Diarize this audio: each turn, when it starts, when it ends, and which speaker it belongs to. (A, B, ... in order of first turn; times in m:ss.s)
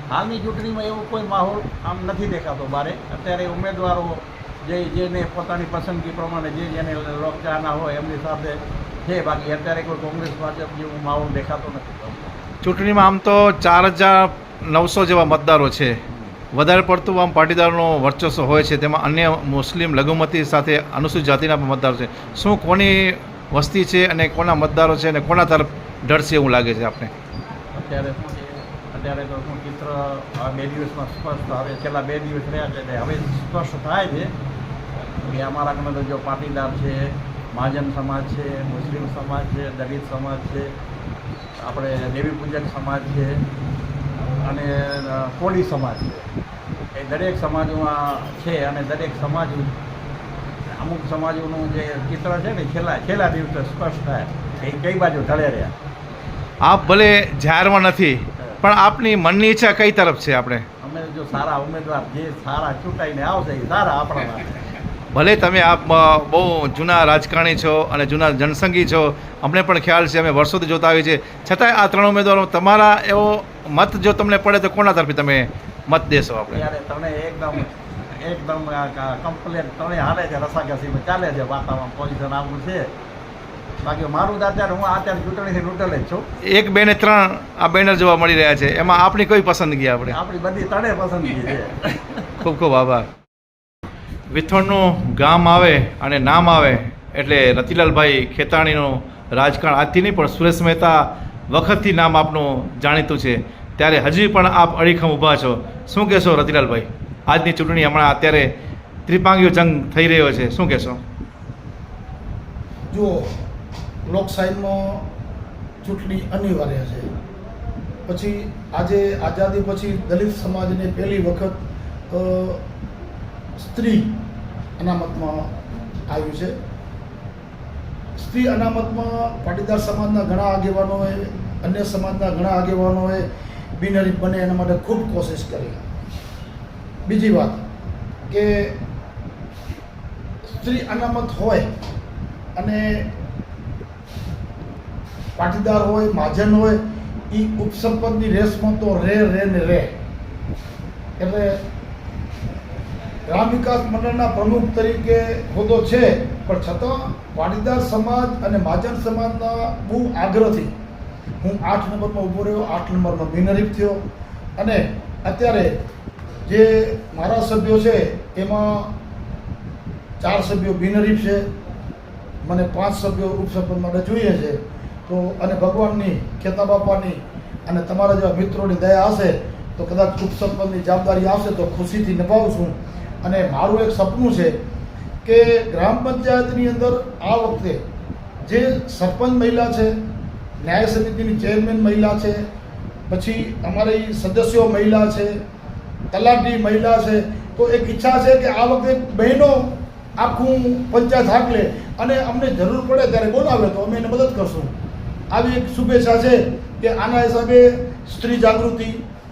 0:00.1-0:12.4 A
0:12.6-0:16.0 B
0:16.5-0:27.1 B
0:27.7-0:34.3 A
0:35.2-0:40.7 A
0:41.6-0:43.4 A
0:44.4-0:46.3 A
0:47.0-0:49.7 A
0:50.7-0:55.7 A
0:56.6-1:00.7 B
1:00.8-1:04.6 A
1:05.1-1:16.6 B
1:16.5-1:22.9 A
1:23.8-1:26.2 A
1:26.4-1:30.2 B
1:30.1-1:32.2 A
1:32.4-1:33.1 B
1:34.3-1:48.5 B
1:49.1-1:51.0 B
1:52.9-1:53.3 C
1:54.1-1:55.1 C
1:55.8-1:57.1 C
1:58.1-2:02.6 C
2:03.6-2:04.2 C
2:04.8-2:05.5 C
2:06.1-2:06.6 C
2:08.2-2:15.8 C
2:17.0-2:17.6 C
2:18.3-2:18.8 C
2:20.5-2:21.7 C
2:22.6-2:23.1 C
2:25.4-2:29.9 C
2:31.2-2:31.6 C
2:33.3-2:40.7 C
2:41.4-2:44.0 C
2:44.6-2:45.7 C
2:46.5-2:49.0 C
2:50.2-2:51.5 C
2:52.4-3:04.6 C
3:05.2-3:07.8 C
3:08.4-3:10.0 C
3:10.6-3:12.4 C
3:13.1-3:15.4 C
3:16.1-3:24.7 C
3:25.3-3:29.0 C